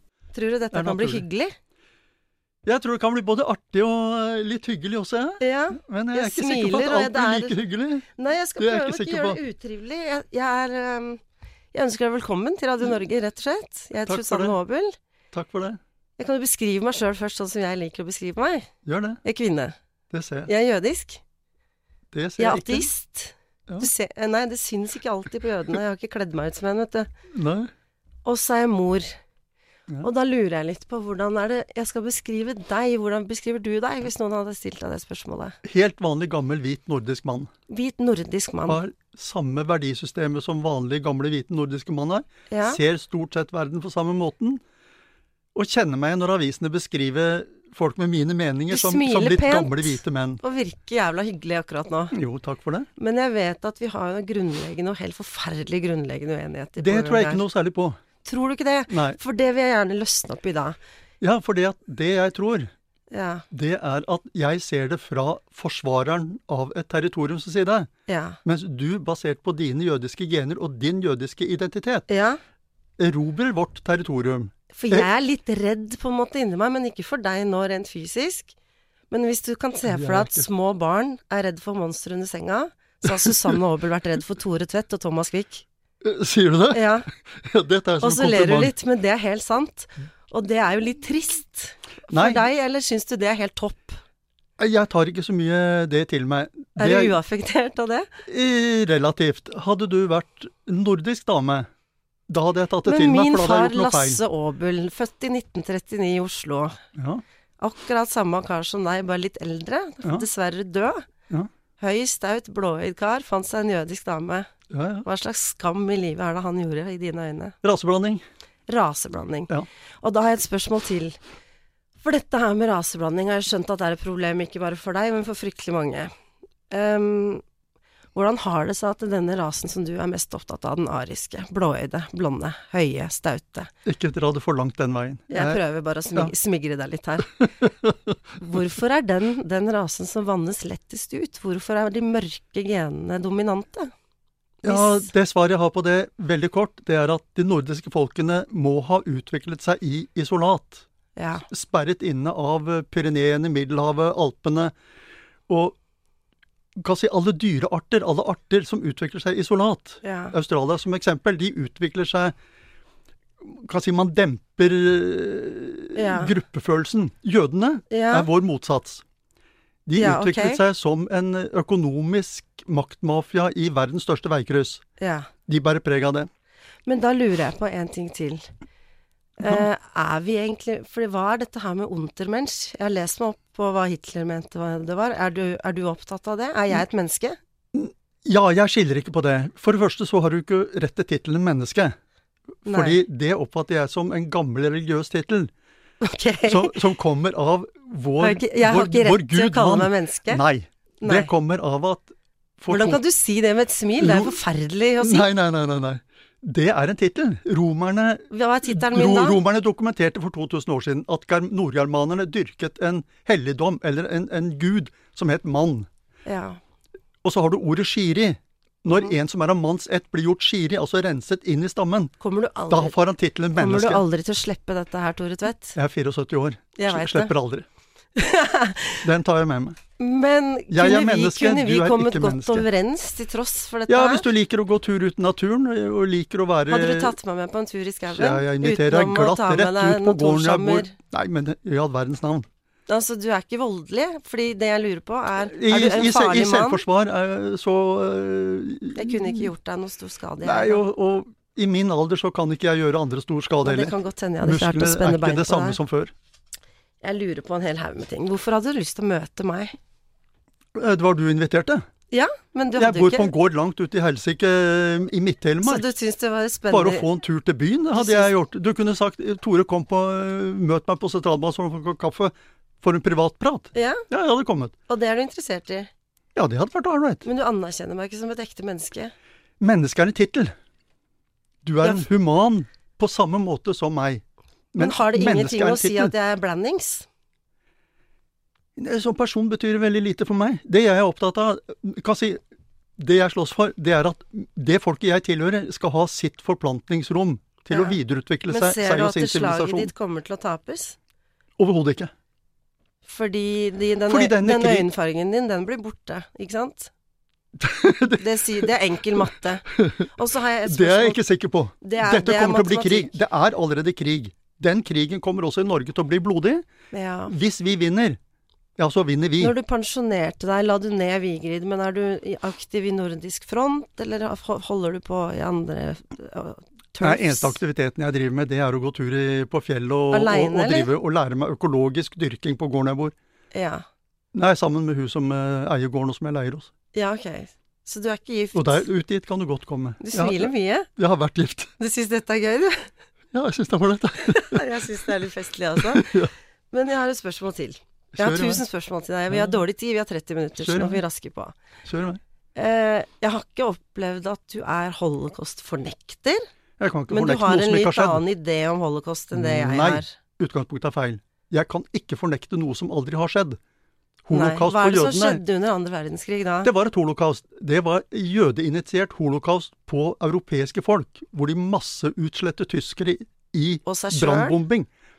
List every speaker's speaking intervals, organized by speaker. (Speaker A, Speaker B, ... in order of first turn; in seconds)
Speaker A: 0.3-1.6, 5.4-7.6, 8.2-11.2, 11.7-15.0, 16.2-18.7, 19.2-19.8, 20.5-21.2, 22.4-27.1, 28.3-29.2, 30.0-35.6, 37.7-38.8, 42.5-42.8, 48.7-52.1, 53.0-57.4, 58.2-60.8, 63.1-63.5, 68.1-68.4, 72.1-72.4, 74.7-78.5, 79.1-85.7, 86.7-87.1, 88.0-94.0, 96.8-98.1, 102.8-106.8, 107.6-111.1, 111.8-114.5, 115.0-117.6, 118.7-121.2, 122.0-126.1, 126.7-127.4, 128.1-133.7, 135.3-137.4, 138.4-143.9, 144.7-145.1, 151.2-151.5, 160.0-160.3, 165.9-166.3, 167.9-168.3, 170.0-170.6, 175.0-175.3, 176.9-178.5, 179.4-187.4, 192.7-193.0, 196.0-196.8, 198.2-200.4, 201.0-201.3, 202.7-205.3, 208.3-209.4, 216.3-216.6, 222.2-223.0, 223.6-225.8, 226.8-227.3, 228.2-229.1, 230.0-234.3, 236.7-240.9, 242.9-246.8, 249.0-250.8, 253.6-255.8, 257.0-259.7, 262.1-263.3, 265.6-267.1, 267.9-268.3, 273.7-274.0, 274.9-275.9, 277.2-279.1, 284.8-287.1, 298.5-301.0, 303.1-306.9, 308.2-311.2, 311.8-313.2, 316.9-317.3, 319.4-327.6, 330.1-330.9, 333.5-333.9, 336.9-338.9, 340.0-340.9, 341.8-342.9, 344.2-351.6, 352.6-356.4, 357.1-360.2, 364.3-366.7, 373.9-374.6
Speaker B: 0.7-1.2, 2.6-8.1, 8.6-9.4, 14.1-14.6, 15.3-15.8, 18.9-19.2, 20.1-20.5, 22.1-22.9, 27.3-27.7, 35.6-37.5, 38.7-44.6, 45.5-50.4, 52.1-52.9, 56.8-58.0, 58.9-59.2, 61.2-62.7, 63.5-67.9, 68.5-72.1, 73.0-75.1, 79.9-80.5, 83.1-83.5, 86.0-88.7, 92.1-92.4, 94.6-97.2, 98.3-101.7, 102.3-104.2, 107.0-107.2, 114.7-115.0, 117.6-118.2, 133.8-135.6, 137.6-138.2, 144.6-150.8, 151.5-154.7, 155.5-155.8, 156.8-162.3, 163.4-169.0, 169.9-174.8, 175.5-176.3, 187.7-192.0, 192.7-195.5, 196.5-203.0, 204.0-204.4, 205.0-215.9, 217.2-222.1, 222.7-224.0, 225.8-227.7, 229.0-229.8, 230.7-232.7, 233.9-237.1, 238.1-242.5, 245.5-249.5, 250.4-256.1, 260.7-261.8, 262.8-265.9, 266.7-274.7, 276.4-277.3, 279.6-280.5, 281.6-286.1, 288.8-292.4, 293.0-299.9, 301.6-302.1, 304.1-304.9, 307.6-308.7, 309.2-310.1, 310.6-316.7, 317.3-318.2, 318.8-319.6, 327.0-333.1, 334.3-336.7, 338.6-341.7, 343.3-344.9, 345.8-346.3, 348.1-348.6, 349.3-349.6, 350.6-351.0, 351.9-352.2, 356.8-358.2, 359.3-363.6, 364.2-365.4, 366.6-374.9